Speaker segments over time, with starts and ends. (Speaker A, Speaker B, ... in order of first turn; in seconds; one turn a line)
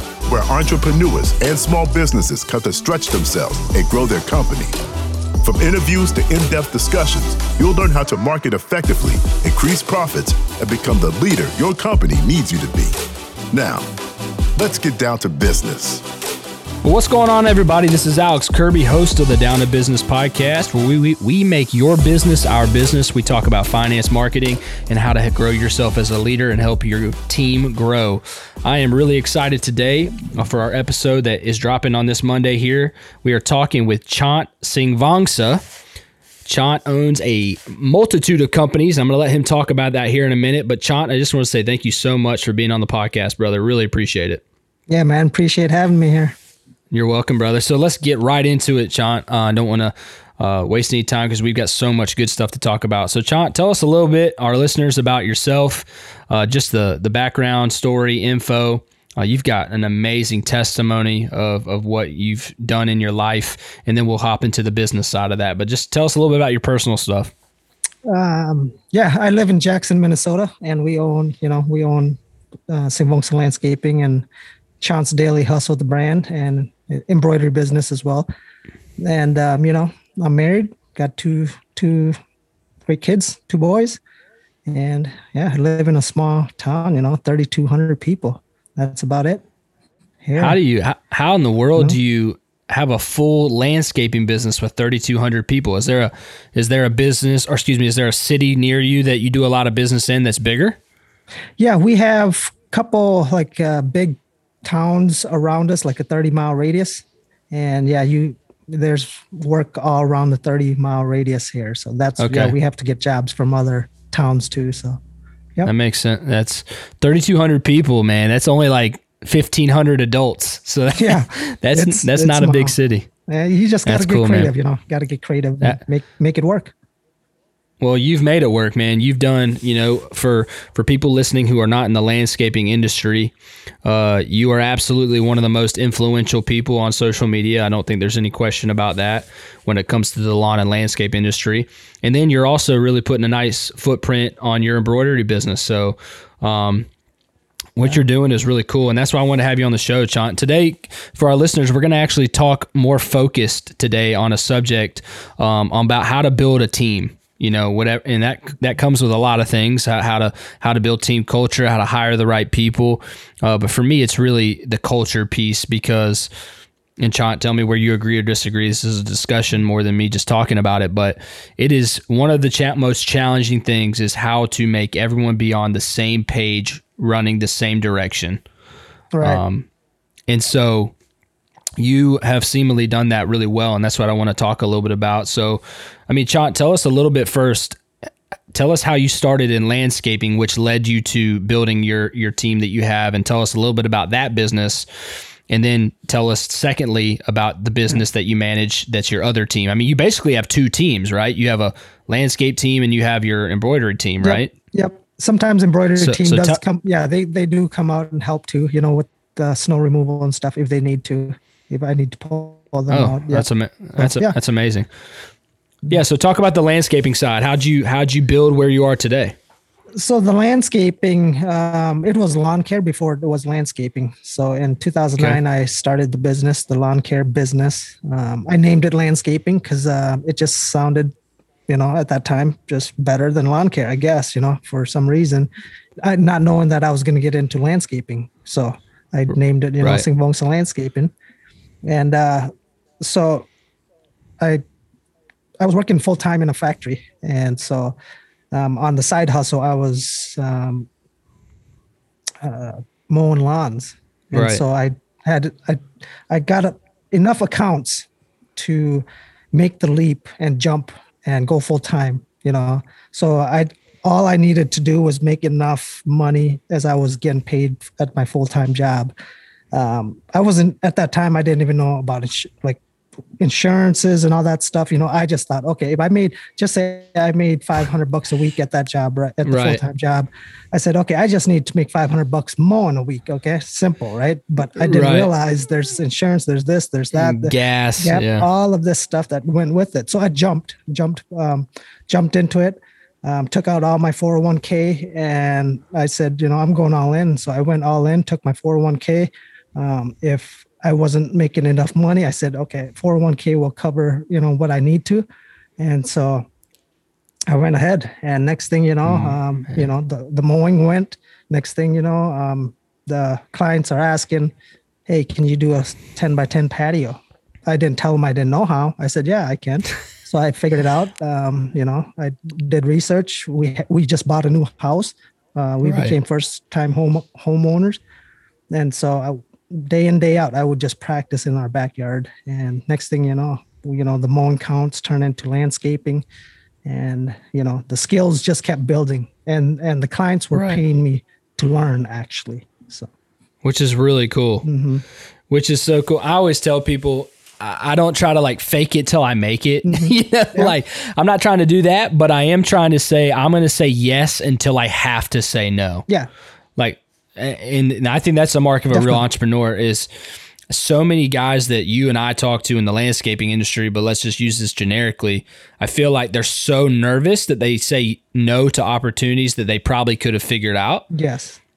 Speaker A: 0.2-4.8
Speaker A: 5.4-12.9
Speaker A: 13.5-13.9
Speaker A: 14.6-16.0
Speaker B: 16.8-35.6
Speaker B: 36.4-44.4
Speaker C: 44.9-46.4
Speaker B: 46.9-67.3
Speaker C: 68.0-74.2
Speaker C: 74.8-78.3
Speaker C: 79.0-82.2
Speaker C: 82.9-84.0
Speaker C: 84.7-89.4
Speaker C: 90.2-90.6
Speaker B: 90.4-100.8
Speaker C: 101.6-115.0
Speaker B: 112.2-112.5
Speaker B: 115.6-123.1
Speaker C: 120.9-126.7
Speaker B: 123.8-124.5
Speaker B: 127.8-146.9
Speaker B: 147.8-166.3
Speaker B: 167.0-178.4
Speaker C: 179.1-179.4
Speaker B: 179.2-179.7
Speaker B: 180.3-180.9
Speaker B: 181.8-187.8
Speaker B: 188.5-194.8
Speaker B: 195.5-204.5
Speaker C: 204.2-214.3
Speaker B: 206.0-206.6
Speaker B: 212.9-214.9
Speaker B: 215.9-219.3
Speaker C: 219.9-231.1
Speaker C: 231.7-235.5
Speaker C: 236.0-241.1
Speaker B: 239.8-240.1
Speaker C: 241.8-243.5
Speaker C: 245.6-247.9
Speaker C: 248.5-250.9
Speaker C: 252.4-269.1
Speaker B: 254.3-254.6
Speaker C: 269.7-272.8
Speaker C: 273.4-305.2
Speaker B: 279.4-279.8
Speaker B: 284.8-285.3
Speaker B: 287.1-288.5
Speaker C: 305.8-306.5
Speaker C: 307.5-314.5
Speaker B: 309.0-309.8
Speaker C: 315.1-328.0
Speaker B: 325.8-326.1
Speaker C: 328.7-336.2
Speaker C: 336.8-343.1
Speaker B: 340.5-340.8
Speaker B: 343.6-344.7
Speaker C: 344.6-345.0
Speaker B: 345.5-356.1
Speaker C: 349.8-350.7
Speaker B: 356.8-360.1
Speaker C: 358.9-359.2
Speaker B: 360.7-371.1
Speaker C: 371.1-371.6